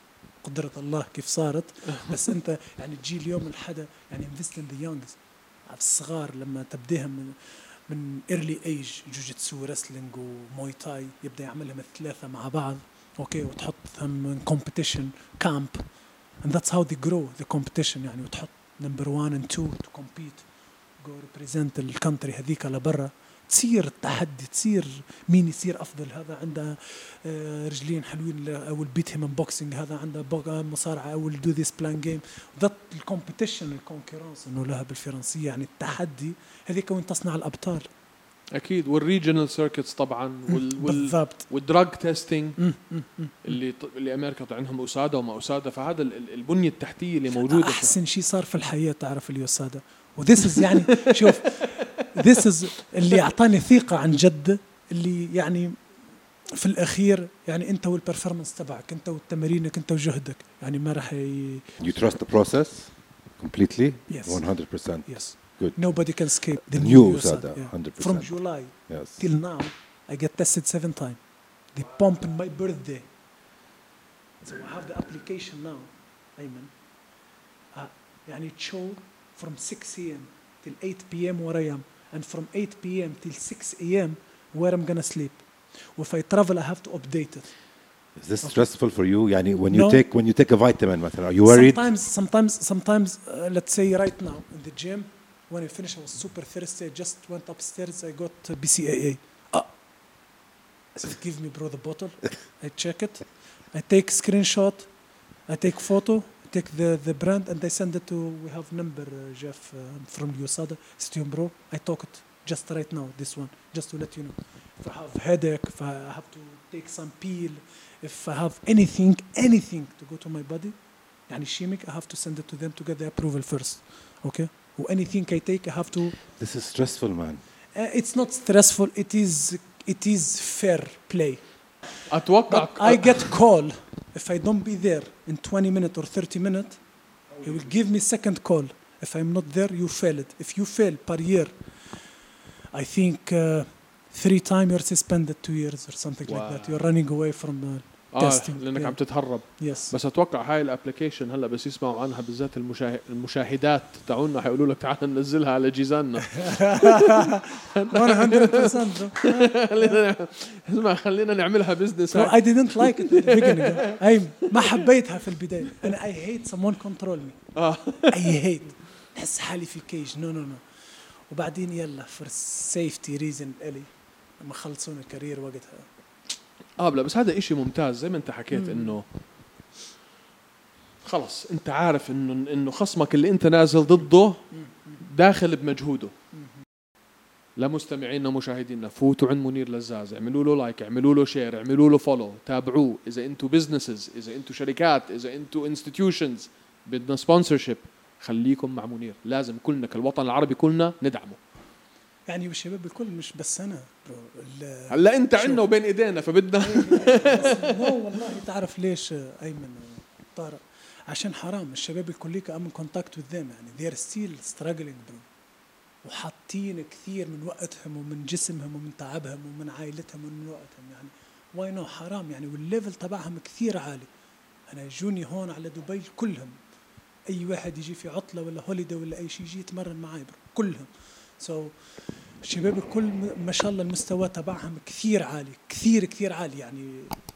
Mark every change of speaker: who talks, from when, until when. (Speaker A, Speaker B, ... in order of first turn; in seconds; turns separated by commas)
Speaker A: 0.4-15.8, Speaker B: 1.9-2.1, Speaker A: 16.4-20.4, Speaker A: 21.0-37.9, Speaker B: 38.5-42.6, Speaker A: 40.5-41.5, Speaker A: 42.6-43.6, Speaker B: 43.4-47.9, Speaker A: 47.4-55.8, Speaker B: 50.6-52.4, Speaker A: 56.5-61.8, Speaker C: 61.8-66.0, Speaker A: 64.1-64.4, Speaker A: 65.0-71.2, Speaker C: 66.6-68.3, Speaker C: 68.9-69.2, Speaker A: 71.7-73.1, Speaker A: 74.4-76.7, Speaker A: 77.7-87.5, Speaker C: 88.2-91.8, Speaker A: 89.7-90.0, Speaker A: 91.4-99.7, Speaker A: 100.9-104.9, Speaker A: 105.5-120.8, Speaker A: 121.3-126.2, Speaker C: 126.2-127.4, Speaker A: 127.7-131.4, Speaker B: 132.1-133.3, Speaker A: 132.5-136.8, Speaker B: 137.4-137.7, Speaker A: 137.4-141.5, Speaker A: 142.7-149.9, Speaker B: 146.3-146.8, Speaker B: 148.1-164.0, Speaker A: 156.3-160.0, Speaker A: 162.1-167.4, Speaker B: 164.5-164.8, Speaker B: 167.6-168.4, Speaker A: 168.1-170.6, Speaker A: 171.3-175.9, Speaker B: 176.8-179.0, Speaker A: 178.5-179.0, Speaker B: 181.0-186.1, Speaker A: 184.5-185.0, Speaker B: 187.6-201.4, Speaker A: 202.3-205.6, Speaker B: 204.9-207.9, Speaker A: 206.6-215.3, Speaker A: 216.0-224.1, Speaker A: 224.7-226.6, Speaker A: 227.3-231.7, Speaker A: 232.4-237.2